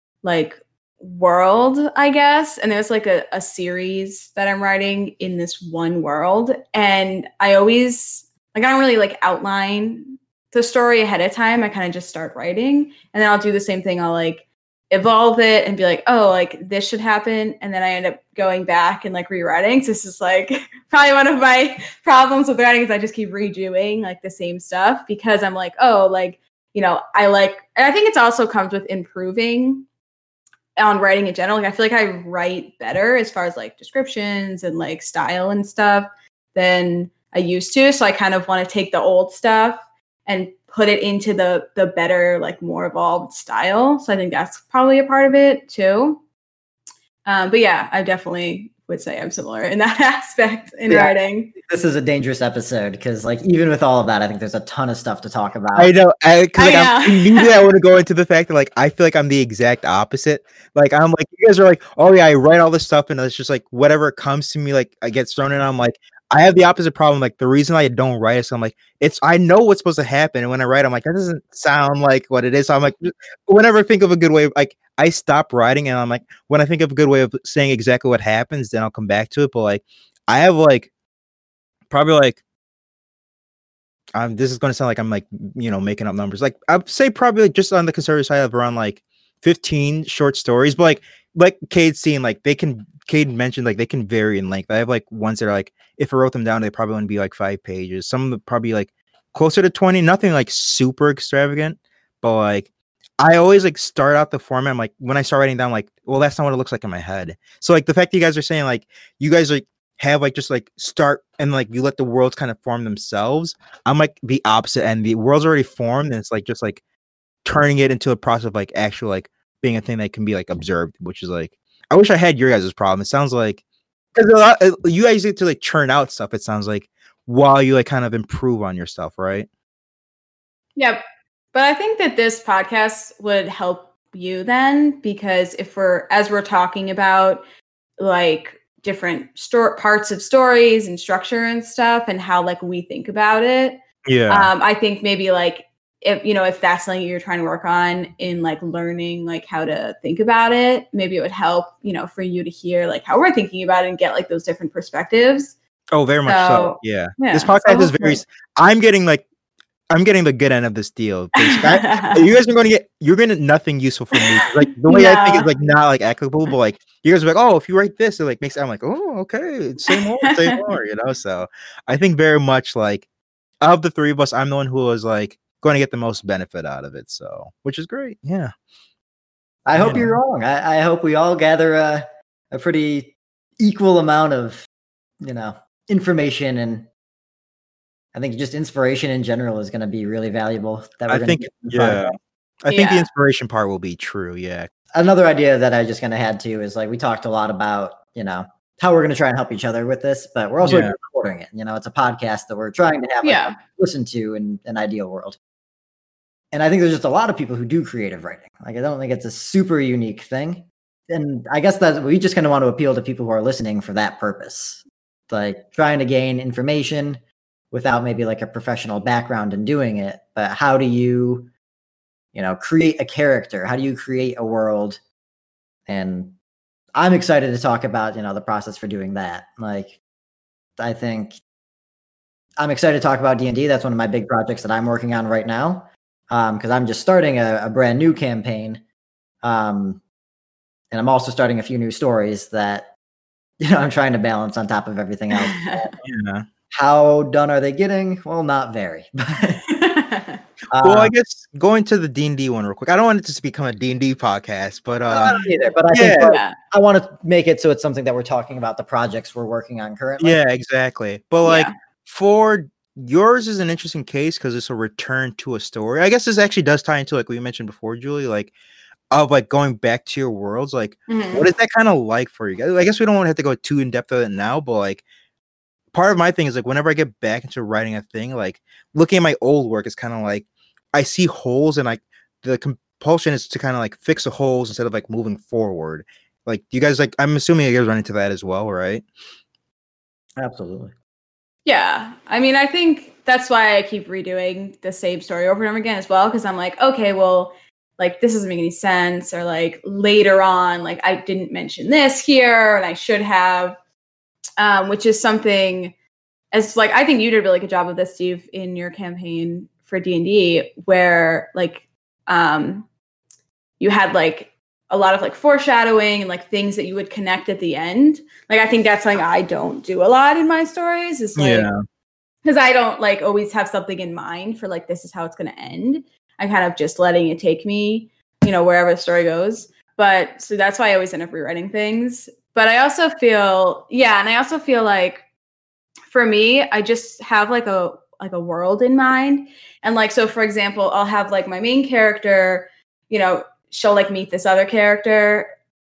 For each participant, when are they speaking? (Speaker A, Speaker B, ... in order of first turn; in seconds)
Speaker A: 0.2-29.9, 30.8-46.2, 47.2-51.5, 56.6-57.7, 130.8-131.0, 131.5-137.4, 138.0-155.6, 156.3-158.2, 161.4-162.2, 164.1-165.5, 169.9-170.6, 192.7-193.1, 203.2-203.6, 245.3-246.0, 249.7-250.4, 256.2-256.6, 261.4-261.7, 271.1-271.5, 291.6-303.8, 304.6-305.9, 306.5-312.9, 313.8-321.7, 322.4-335.2, 336.1-345.5
Speaker B: 50.9-55.9, 179.7-184.7, 185.2-186.9, 188.1-192.1, 194.9-205.4, 206.5-221.5, 222.3-225.0, 225.9-226.4, 226.9-230.0, 230.8-231.4, 232.6-238.8, 239.4-240.0, 240.9-242.9, 243.6-245.9, 246.7-249.6, 250.7-251.1, 255.1-260.4, 290.4-290.9
Speaker C: 55.8-80.9, 81.9-82.4, 84.2-116.8, 117.5-123.6, 124.2-129.5, 144.1-144.5, 155.9-159.3, 159.9-173.1, 173.6-178.5, 179.8-180.2, 191.1-194.7, 200.6-200.9, 246.0-246.5, 250.8-255.4, 255.9-256.4, 260.2-268.5, 269.1-275.0, 275.9-289.1, 321.4-321.8